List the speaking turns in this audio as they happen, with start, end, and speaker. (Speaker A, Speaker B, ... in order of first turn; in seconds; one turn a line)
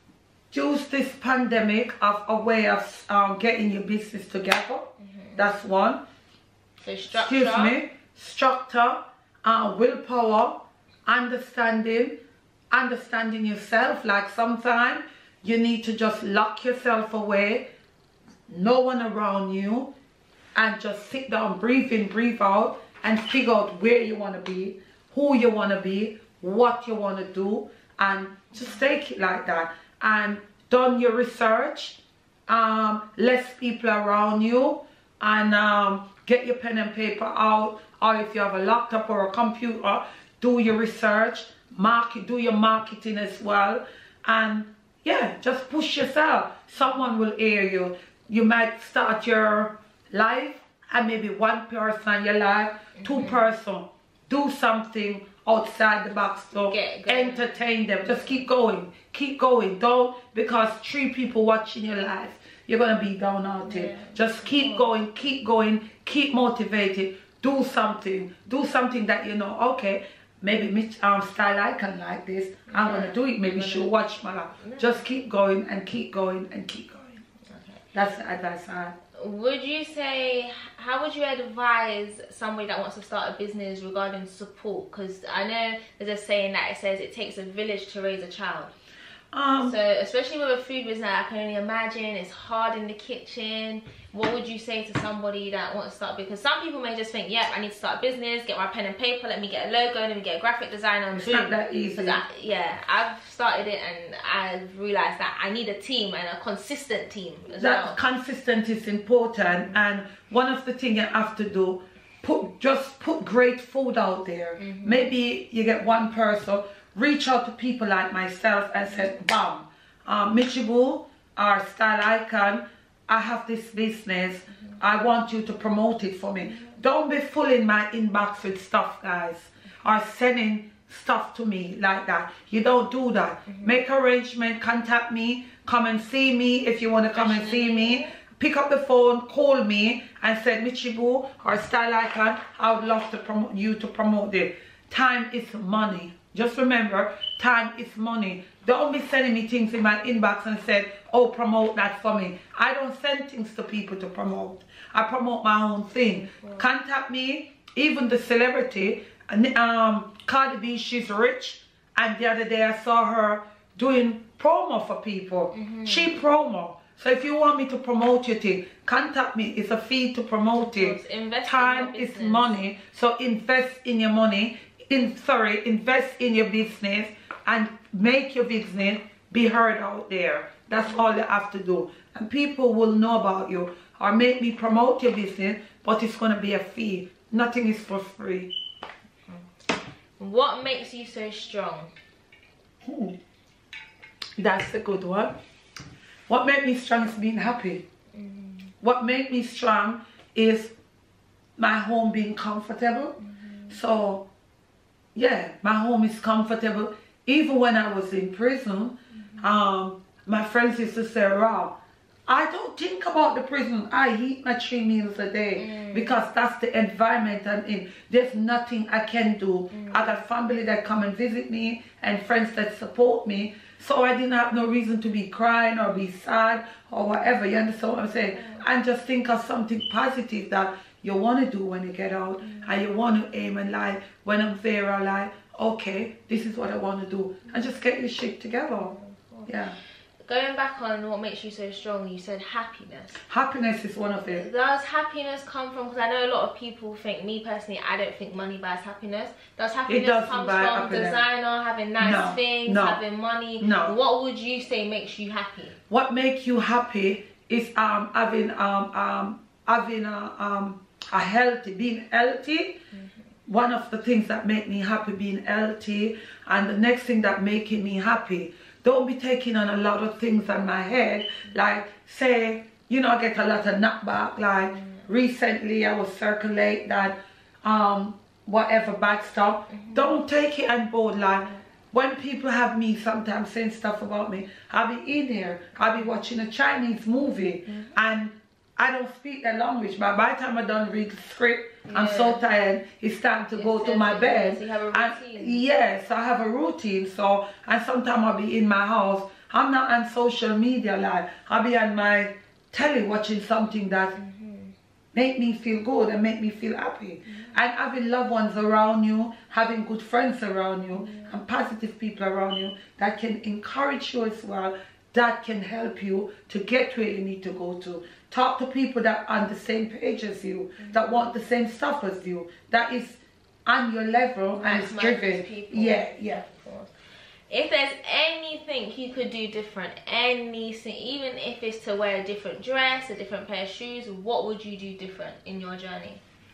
Speaker A: 0.5-6.0
Speaker B: 5.0-5.5
Speaker B: 6.8-7.8
Speaker A: 7.1-12.2
Speaker A: 12.7-17.6
Speaker A: 18.5-19.9
Speaker A: 20.6-77.2
Speaker B: 53.0-53.4
Speaker B: 56.7-58.4
Speaker B: 63.6-64.9
Speaker B: 72.7-74.0
Speaker B: 74.6-75.0
Speaker B: 77.5-77.8
Speaker A: 77.9-79.0
Speaker B: 79.2-88.7
Speaker A: 89.3-89.8
Speaker B: 89.6-108.0
Speaker A: 101.1-102.2
Speaker A: 107.6-188.5
Speaker B: 114.6-115.1
Speaker B: 118.9-119.2
Speaker B: 126.4-126.8
Speaker B: 133.5-133.8
Speaker B: 137.1-138.1
Speaker B: 156.0-156.6
Speaker B: 165.5-166.2
Speaker B: 170.5-172.6
Speaker B: 180.8-181.1
Speaker B: 190.2-191.9
Speaker A: 192.8-193.2
Speaker A: 194.4-195.3
Speaker A: 196.3-197.8
Speaker B: 198.1-198.7
Speaker A: 198.8-200.7
Speaker A: 201.6-203.2
Speaker B: 203.2-203.8
Speaker A: 203.7-204.2
Speaker A: 205.1-211.7
Speaker B: 209.2-209.5
Speaker A: 212.3-238.9
Speaker B: 215.6-216.2
Speaker B: 219.7-220.2
Speaker B: 227.8-228.6
Speaker B: 232.4-232.8
Speaker B: 238.8-239.5
Speaker A: 239.5-239.8
Speaker B: 240.2-243.2
Speaker A: 243.3-244.4
Speaker B: 244.3-255.8
Speaker A: 249.9-251.2
Speaker A: 252.0-253.0
Speaker A: 253.6-253.9
Speaker A: 255.9-262.8
Speaker B: 262.9-263.2
Speaker A: 263.5-304.1
Speaker B: 274.6-275.1
Speaker B: 279.7-280.2
Speaker B: 287.7-287.9
Speaker B: 291.9-292.4
Speaker B: 293.5-295.6
Speaker B: 304.1-304.7
Speaker A: 305.1-326.4
Speaker B: 310.9-311.4
Speaker B: 320.8-321.3
Speaker B: 324.5-326.9
Speaker B: 327.5-336.2